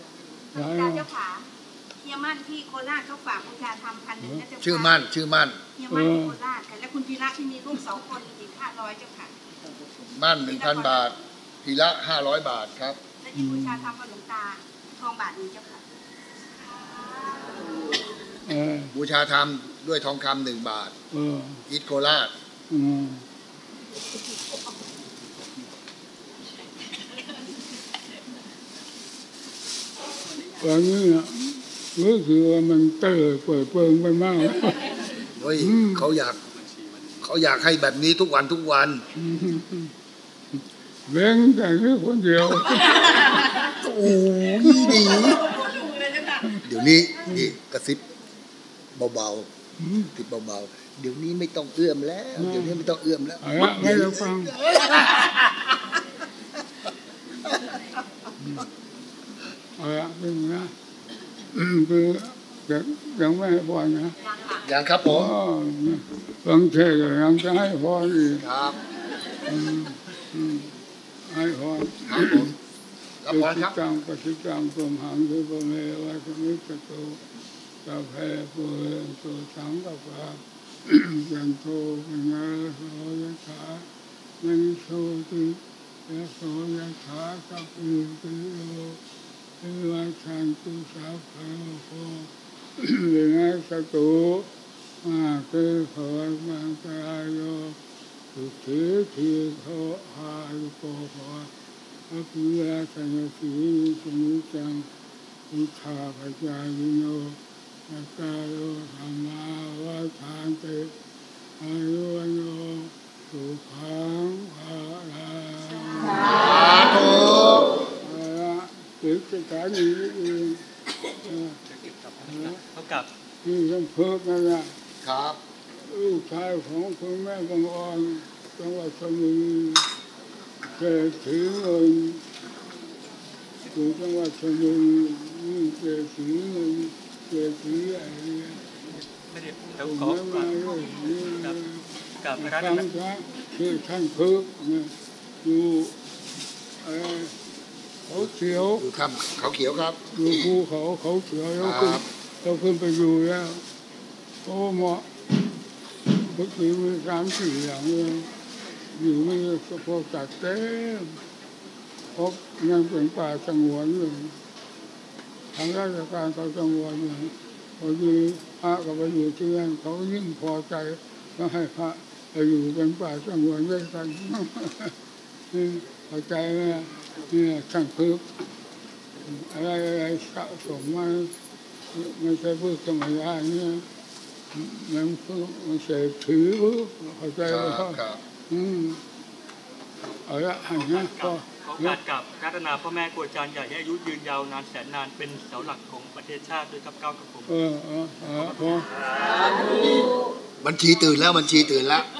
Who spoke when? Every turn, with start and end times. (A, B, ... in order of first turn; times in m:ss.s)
0:00.5-0:01.5 A
0:00.5-0:01.0 B
0:02.0-0:05.1 A
0:04.6-0:05.6 C
0:05.8-0:09.3 A
0:05.9-0:06.4 B
0:10.1-0:13.0 C
0:10.5-0:11.2 A
0:13.2-0:15.8 A
0:13.4-0:13.9 B
0:16.8-0:17.5 A
0:18.4-0:19.0 B
0:18.9-0:20.9 C
0:21.1-0:21.6 B
0:21.7-0:22.3 C
0:22.7-0:23.3 B
0:30.5-0:36.1 B
0:35.3-0:36.4 C
0:37.2-0:39.0 C
0:39.1-0:39.9 B
0:41.1-0:45.0 B
0:43.7-0:45.5 C
0:44.9-0:46.6 A
0:46.6-0:48.0 C
0:48.9-0:49.5 C
0:49.8-0:50.1 B
0:50.1-0:55.8 C
0:52.4-0:52.8 B
0:53.4-0:54.5 B
0:57.4-0:57.8 C
0:59.8-1:00.7 B
1:01.5-1:04.2 B
1:04.2-1:04.7 A
1:04.6-1:05.3 C
1:05.0-1:08.4 B
1:08.3-1:08.8 C
1:09.4-1:10.7 B
1:11.2-1:12.5 B
1:12.1-1:12.5 C
1:13.2-1:13.8 C
1:13.3-1:17.2 B
1:17.8-1:23.9 B
1:24.4-1:29.0 B
1:29.6-1:34.5 B
1:35.0-1:37.8 B
1:38.3-1:41.5 B
1:42.1-1:44.9 B
1:45.5-1:50.9 B
1:51.6-1:56.4 B
1:56.2-1:57.9 C
1:58.0-2:01.6 B
2:01.8-2:03.1 D
2:02.2-2:02.6 B
2:03.4-2:04.7 B
2:05.0-2:05.4 C
2:05.9-2:09.9 B
2:10.6-2:12.2 B
2:13.7-2:18.6 B
2:19.2-2:21.6 D
2:19.8-2:21.8 B
2:22.2-2:22.8 D
2:22.4-2:26.0 B
2:26.8-2:27.3 B
2:28.1-2:28.9 B
2:28.8-2:30.0 C
2:30.1-2:33.6 B
2:31.6-2:32.0 C
2:34.4-2:35.1 B
2:36.1-2:38.3 B
2:38.9-2:41.2 B
2:42.1-2:44.4 B
2:45.5-2:55.0 B
2:55.5-2:58.4 B
2:59.2-3:01.3 B
3:01.9-3:03.8 B
3:04.5-3:09.0 B
3:07.4-3:08.2 C
3:10.2-3:12.0 B
3:10.7-3:17.5 D
3:17.5-3:18.9 B
3:19.2-3:20.3 A
3:20.6-3:22.1 C